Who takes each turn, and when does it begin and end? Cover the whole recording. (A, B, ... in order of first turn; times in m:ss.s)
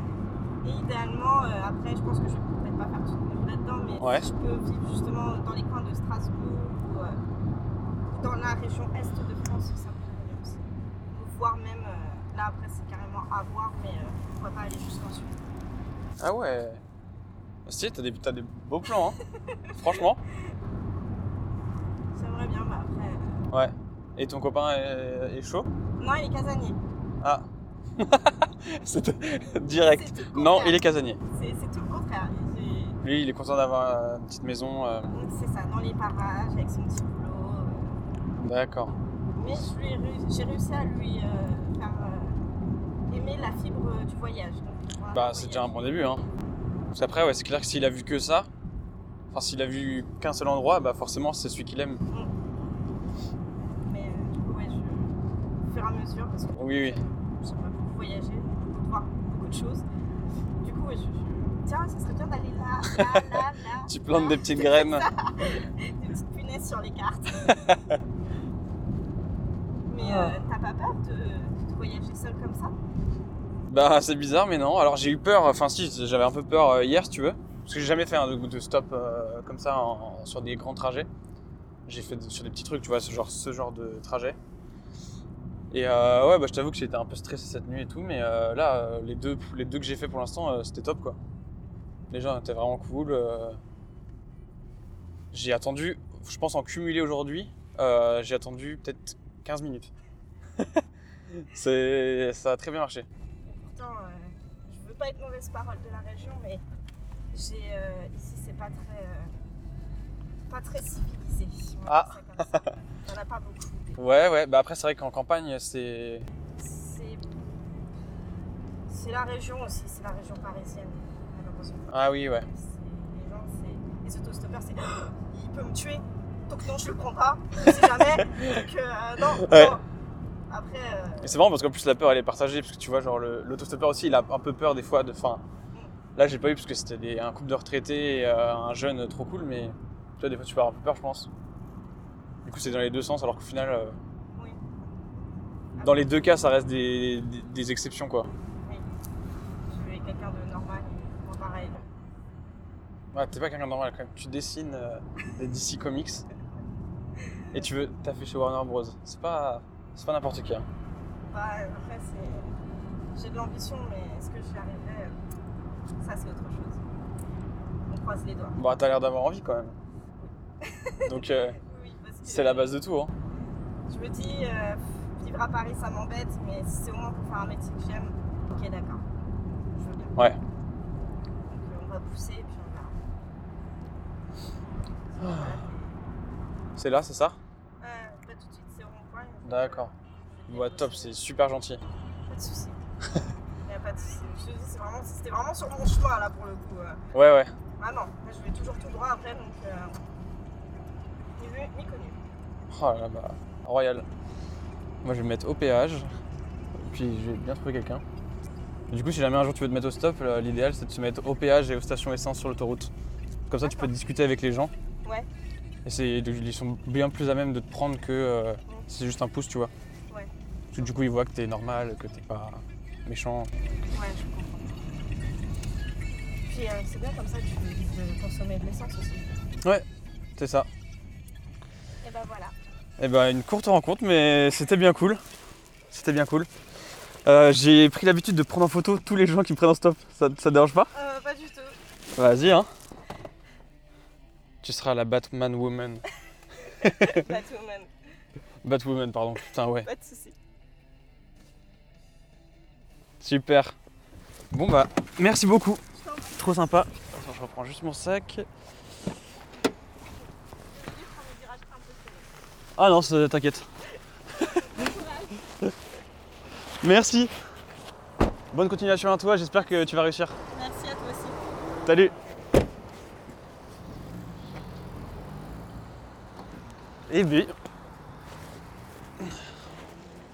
0:00.6-0:07.2 A
0:04.0-0:04.2 B
0:08.1-0:15.4 A
0:16.2-0:16.8 B
0:17.6-0:19.2 B
0:19.7-0:20.2 B
0:22.1-0:23.4 A
0:23.5-0:25.7 B
0:26.0-0:26.8 A
0:27.2-0:27.4 B
0:28.0-0:31.2 B
0:29.8-0:33.0 A
0:33.0-0:35.1 B
0:35.1-0:38.0 A
0:38.4-0:39.0 B
0:39.3-0:42.4 A
0:43.1-0:45.9 A
0:45.1-0:46.2 B
0:46.9-0:48.5 B
0:49.3-0:52.0 B
0:53.8-0:59.8 A
0:56.6-0:57.0 B
1:00.6-1:07.7 A
1:03.0-1:05.1 B
1:09.9-1:12.8 A
1:10.0-1:10.3 B
1:13.7-1:21.1 B
1:21.8-1:24.4 B
1:25.7-1:31.2 B
1:32.1-1:33.6 B
1:35.3-1:39.9 B
1:41.3-1:43.1 B
1:43.4-1:46.6 A
1:47.3-1:49.3 A
1:50.5-1:54.0 A
1:51.9-1:52.6 B
1:54.0-1:56.3 B
1:56.6-1:57.4 A
1:58.9-2:09.8 A
2:01.9-2:02.5 B
2:08.2-2:08.7 B
2:09.3-2:09.8 B
2:10.5-2:11.3 A
2:11.2-2:15.4 B
2:16.2-2:21.3 B
2:22.4-2:24.0 B
2:24.3-2:24.6 A
2:25.8-2:26.1 A
2:25.8-2:28.3 B
2:29.7-2:31.8 A
2:33.1-2:36.2 B
2:37.5-2:40.7 B
2:41.3-2:42.5 A
2:43.2-2:45.2 A
2:46.0-2:46.8 A
2:47.9-2:48.6 A
2:48.6-2:49.8 B
2:50.2-2:52.8 A
2:51.1-2:51.6 B
2:52.2-2:53.1 B
2:53.9-2:59.0 A
2:59.7-3:00.2 A
3:01.5-3:02.9 A
3:05.1-3:06.0 A
3:05.2-3:05.6 B
3:06.8-3:07.4 B
3:07.8-3:11.2 A
3:09.4-3:09.9 B
3:10.5-3:11.8 B
3:12.3-3:12.8 A
3:13.7-3:17.0 A
3:17.1-3:17.5 B
3:17.8-3:20.0 A
3:21.4-3:22.2 A
3:22.7-3:24.1 B
3:25.0-3:26.1 B
3:26.7-3:28.0 B
3:28.9-3:32.9 B
3:33.5-3:34.7 B
3:33.6-3:33.9 A
3:35.8-3:39.7 B
3:40.1-3:40.9 A
3:40.7-3:43.5 B
3:43.9-3:44.7 A
3:46.4-3:49.3 A
3:50.4-3:50.7 B
3:52.0-3:52.5 A
3:53.0-3:55.2 B
3:55.9-3:56.5 B
3:57.2-4:00.9 B
4:00.9-4:01.8 A
4:02.2-4:02.7 B
4:04.6-4:06.0 B
4:06.8-4:07.9 A
4:06.8-4:07.3 B
4:08.6-4:09.9 B
4:09.8-4:10.3 A
4:13.2-4:13.7 B
4:14.5-4:15.8 B
4:16.0-4:16.4 A
4:16.3-4:18.4 B
4:20.7-4:22.3 A
4:22.8-4:23.7 B
4:24.3-4:25.4 A
4:26.8-4:27.3 B
4:28.5-4:30.4 B
4:30.5-4:31.4 A
4:31.8-4:32.1 B
4:37.1-4:37.5 B